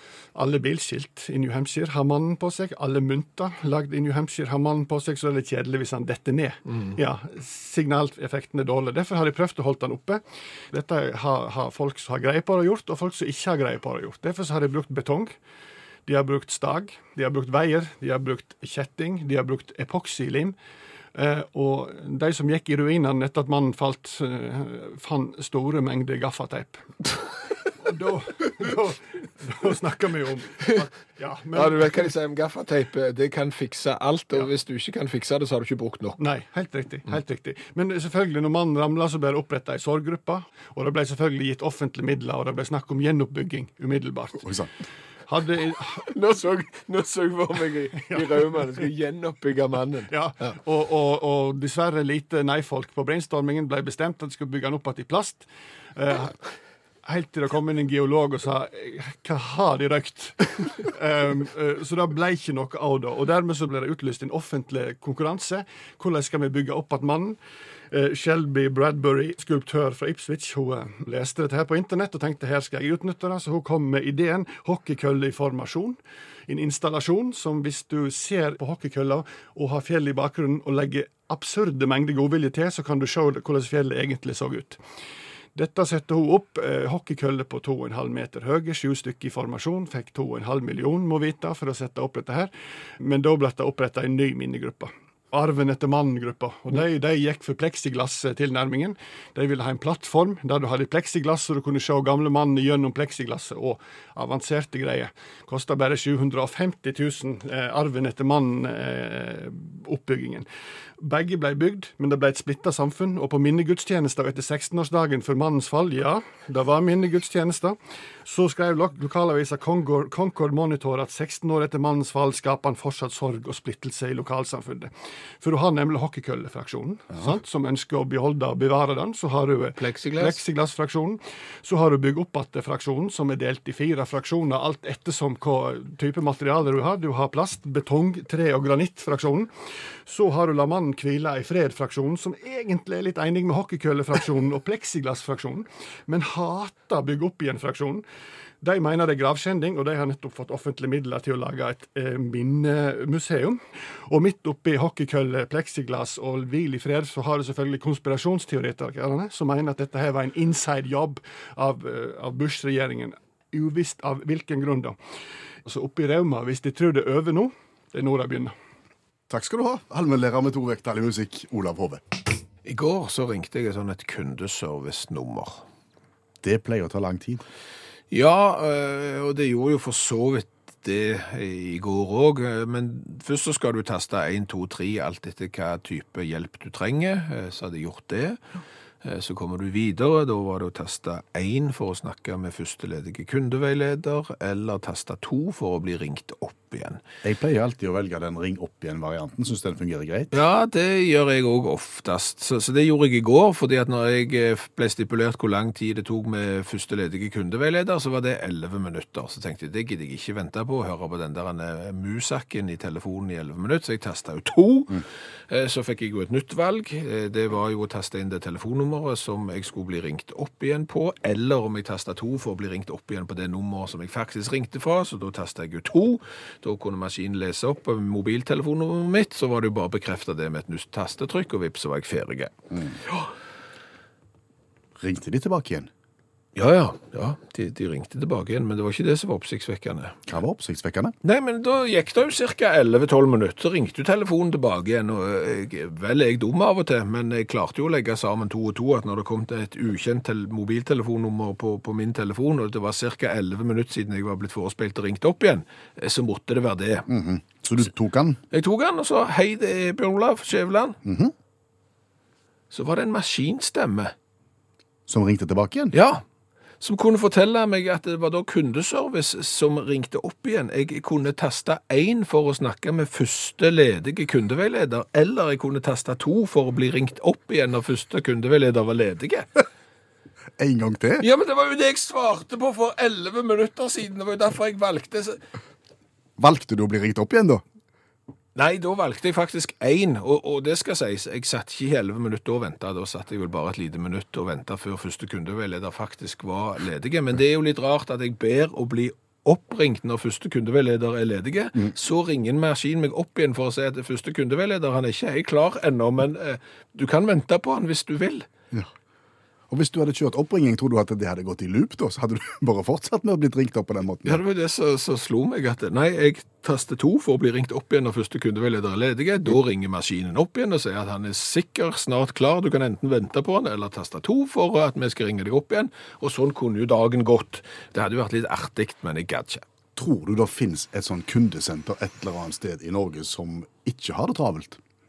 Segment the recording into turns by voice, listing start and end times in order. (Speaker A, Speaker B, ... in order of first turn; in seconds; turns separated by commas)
Speaker A: 0.3-10.2, Speaker A: 10.7-15.3, Speaker A: 16.1-20.6, Speaker A: 21.1-26.9, Speaker A: 27.8-32.1, Speaker B: 31.5-36.2, Speaker A: 36.2-44.5, Speaker C: 44.4-44.7, Speaker A: 45.3-46.1, Speaker B: 46.0-50.5, Speaker A: 48.1-48.6, Speaker A: 50.1-56.4, Speaker A: 57.0-67.4, Speaker A: 67.9-84.8, Speaker A: 85.5-110.5, Speaker A: 111.0-139.5, Speaker B: 129.8-130.4, Speaker A: 140.1-148.0, Speaker A: 148.6-165.0, Speaker A: 165.6-168.5, Speaker C: 169.3-172.0, Speaker B: 172.6-175.6, Speaker C: 176.4-177.4, Speaker B: 178.1-188.4, Speaker B: 189.0-197.0, Speaker C: 197.2-200.3, Speaker B: 200.3-232.5, Speaker C: 232.7-233.0, Speaker C: 235.0-235.9, Speaker B: 236.6-240.2, Speaker C: 240.3-241.1, Speaker B: 241.2-257.1, Speaker C: 257.1-258.4, Speaker B: 258.5-261.0, Speaker C: 261.1-261.3, Speaker B: 262.7-264.1, Speaker C: 265.1-265.9, Speaker B: 265.9-266.2, Speaker B: 266.8-279.5, Speaker C: 280.6-281.2, Speaker B: 281.2-285.4, Speaker C: 286.4-287.6, Speaker B: 288.6-308.5, Speaker C: 309.7-314.4, Speaker B: 314.2-329.6, Speaker C: 330.0-334.8